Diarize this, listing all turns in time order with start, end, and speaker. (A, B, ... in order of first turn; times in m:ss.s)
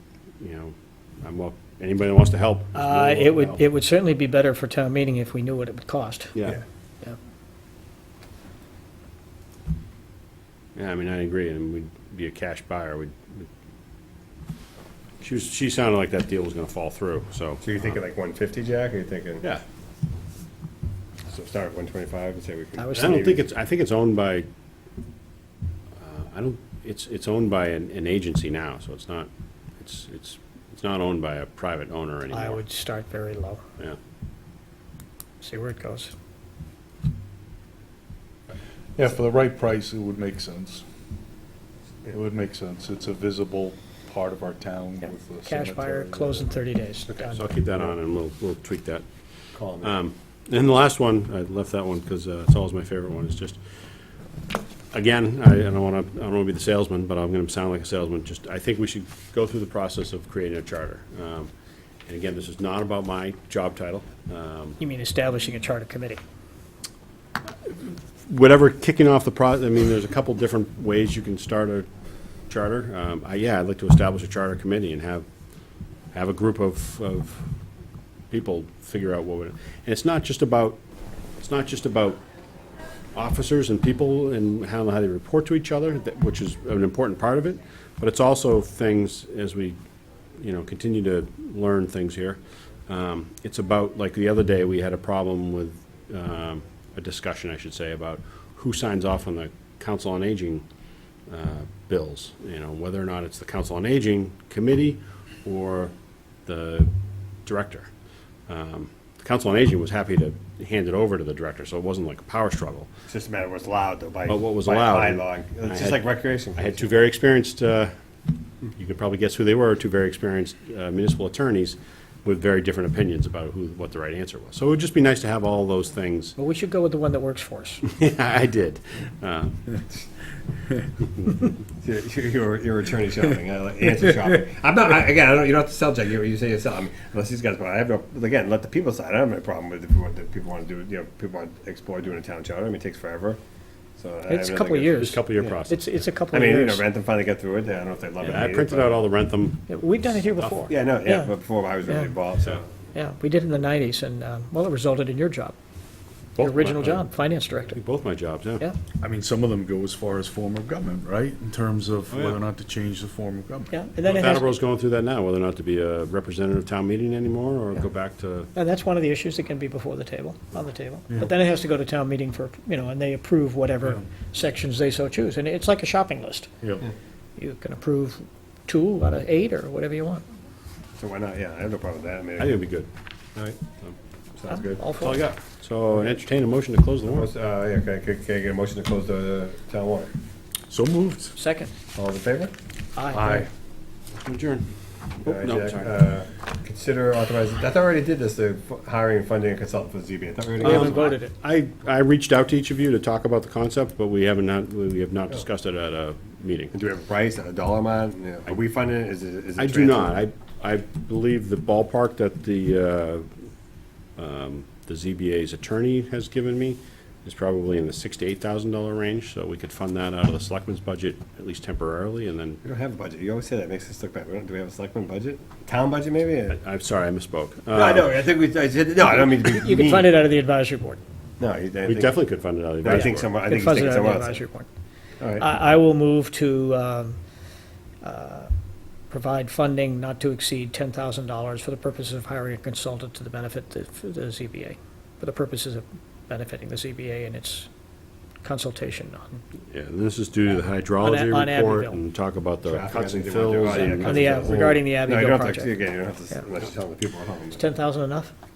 0:00.4-0:03.6 A
0:02.8-0:06.3 B
0:06.4-0:06.6 A
0:10.8-0:13.5 A
0:15.2-0:17.6 A
0:17.6-0:19.4 C
0:21.3-0:23.4 C
0:22.8-0:23.3 B
0:22.9-0:24.5 A
0:26.0-0:32.6 A
0:32.3-0:33.6 B
0:35.4-0:36.1 B
0:39.0-0:40.8 D
0:42.1-0:46.6 D
0:45.0-0:47.5 B
0:47.1-0:49.0 A
0:49.5-0:50.0 C
0:49.8-0:53.6 A
0:54.9-1:01.5 A
1:02.1-1:04.8 A
1:04.8-1:06.2 B
1:07.7-1:11.9 A
1:12.5-1:15.3 A
1:16.1-1:17.5 A
1:18.3-1:20.8 A
1:21.4-1:22.2 A
1:23.1-1:29.8 A
1:30.4-1:40.7 A
1:41.3-1:45.9 A
1:46.4-1:46.9 A
1:47.5-1:47.9 A
1:48.5-1:52.9 A
1:53.1-1:57.0 C
1:54.3-1:56.0 A
1:56.6-1:57.9 A
1:58.8-2:06.4 A
2:06.4-2:07.8 B
2:07.8-2:09.8 A
2:11.8-2:23.4 C
2:24.0-2:25.6 C
2:24.3-2:26.8 B
2:25.0-2:25.9 A
2:26.3-2:29.1 C
2:28.2-2:29.6 A
2:29.7-2:31.3 B
2:30.7-2:32.6 C
2:31.9-2:32.1 B
2:33.0-2:35.6 B
2:36.4-2:37.0 A
2:36.4-2:37.8 B
2:37.7-2:38.6 A
2:39.0-2:43.8 D
2:42.1-2:42.4 A
2:43.7-2:44.5 B
2:44.0-2:48.5 A
2:48.6-2:56.5 B
2:56.6-2:56.9 D
2:57.4-3:00.2 B
3:01.0-3:02.6 C
3:02.4-3:02.9 A
3:03.4-3:03.6 C
3:04.4-3:04.8 C
3:04.5-3:05.2 B
3:04.9-3:07.3 A
3:07.1-3:10.1 C
3:10.7-3:11.4 D
3:11.4-3:11.7 B
3:12.0-3:12.5 C
3:13.0-3:13.5 B
3:13.1-3:13.5 D
3:14.2-3:16.0 A
3:15.2-3:21.1 C
3:20.6-3:21.3 B
3:20.6-3:26.7 A
3:26.7-3:30.2 C
3:29.6-3:33.3 A
3:34.2-3:42.6 A
3:42.6-3:46.6 C
3:46.5-3:48.3 A
3:47.7-3:50.2 C
3:49.3-3:51.0 B
3:51.4-3:52.2 C
3:51.8-3:53.4 A
3:52.8-3:54.4 C
3:52.9-3:54.7 B
3:55.2-3:55.5 C
3:55.4-3:57.2 B
3:58.0-3:58.5 B
3:59.1-4:07.7 B
4:08.4-4:09.4 B
4:09.7-4:14.6 A
4:11.0-4:12.0 B
4:12.7-4:17.7 C
4:13.7-4:15.7 B
4:17.6-4:18.3 B